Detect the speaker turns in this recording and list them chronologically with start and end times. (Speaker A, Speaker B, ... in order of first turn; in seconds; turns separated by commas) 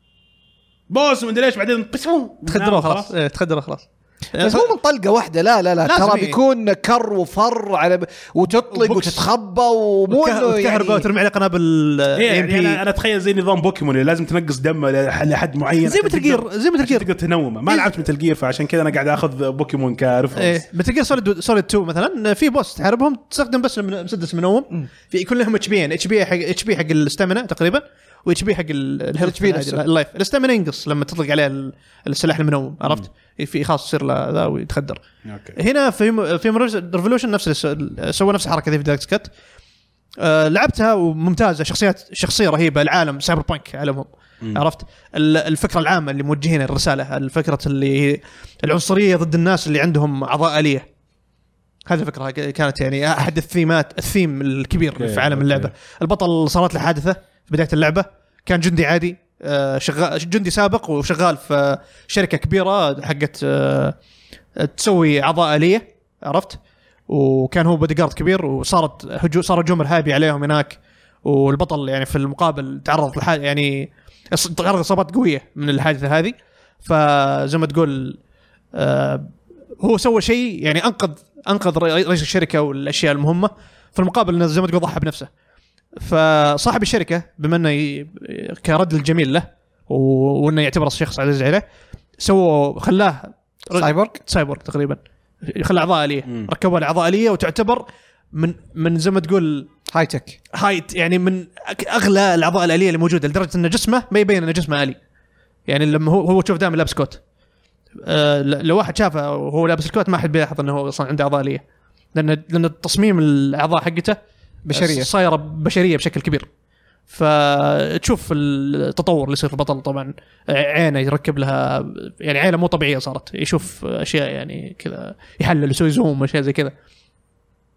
Speaker A: 0.9-3.1, Speaker B: 2.4-4.7, Speaker C: 4.4-11.1, Speaker B: 5.8-6.4, Speaker B: 8.7-9.2, Speaker B: 10.1-12.8, Speaker A: 12.2-20.6, Speaker B: 15.8-17.1, Speaker B: 20.4-35.0, Speaker C: 29.2-29.8, Speaker A: 35.2-35.6, Speaker B: 35.5-39.3, Speaker B: 40.2-50.9, Speaker B: 51.9-64.0, Speaker A: 55.0-55.7, Speaker B: 64.6-66.6, Speaker B: 67.1-78.2, Speaker B: 78.7-85.3, Speaker B: 86.0-91.6, Speaker B: 92.2-99.7, Speaker C: 93.7-94.2, Speaker C: 99.9-100.4, Speaker B: 100.5-105.0, Speaker B: 105.7-107.2, Speaker B: 108.0-111.6, Speaker B: 112.1-114.2, Speaker C: 114.7-115.1, Speaker B: 114.7-116.5, Speaker B: 117.1-126.7